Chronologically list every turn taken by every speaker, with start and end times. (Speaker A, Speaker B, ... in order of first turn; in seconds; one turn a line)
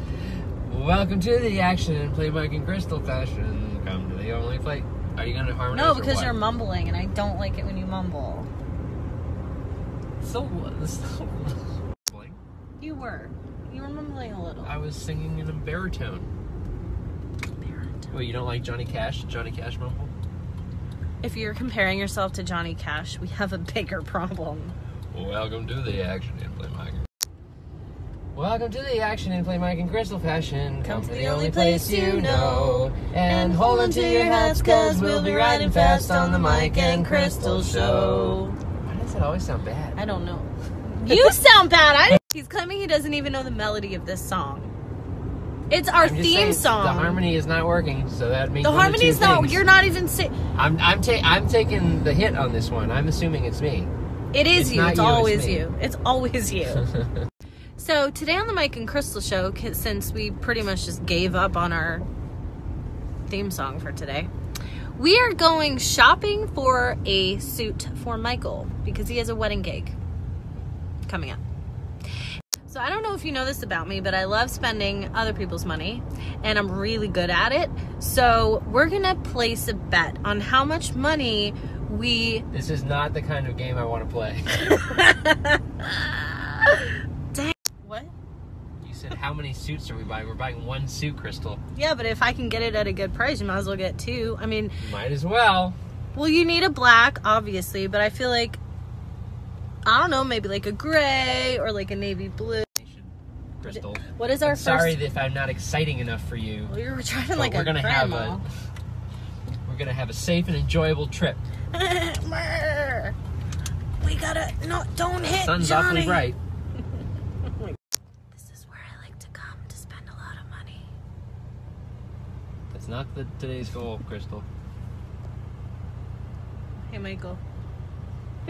Speaker A: 0.7-6.4
Speaker B: 5.7-8.5
Speaker A: 10.2-12.4
Speaker B: 12.8-14.8
Speaker A: 14.6-16.3
Speaker B: 17.6-18.1
Speaker A: 18.1-20.1
Speaker B: 21.2-24.8
Speaker A: 25.1-27.1
Speaker A: 28.3-40.0
Speaker B: 30.8-38.6
Speaker B: 40.0-44.7
Speaker B: 45.7-47.2
Speaker A: 46.0-49.6
Speaker B: 48.6-50.4
Speaker A: 50.5-53.9
Speaker B: 54.3-56.9
Speaker A: 54.5-55.7
Speaker A: 56.9-57.3
Speaker B: 57.8-62.0
Speaker B: 63.3-64.3
Speaker B: 65.0-70.0
Speaker B: 71.0-71.4
Speaker B: 72.7-82.5
Speaker A: 82.5-84.7
Speaker B: 84.6-88.1
Speaker A: 88.8-91.6
Speaker B: 91.7-94.8
Speaker A: 94.8-95.8
Speaker B: 96.1-98.6
Speaker B: 99.9-102.7
Speaker A: 102.8-106.7
Speaker B: 103.7-105.0
Speaker B: 106.7-108.4
Speaker A: 107.3-108.5
Speaker A: 109.7-111.4
Speaker B: 111.7-113.2
Speaker B: 114.0-116.3
Speaker A: 115.2-116.4
Speaker B: 118.3-120.8
Speaker A: 122.7-124.5
Speaker B: 126.9-127.4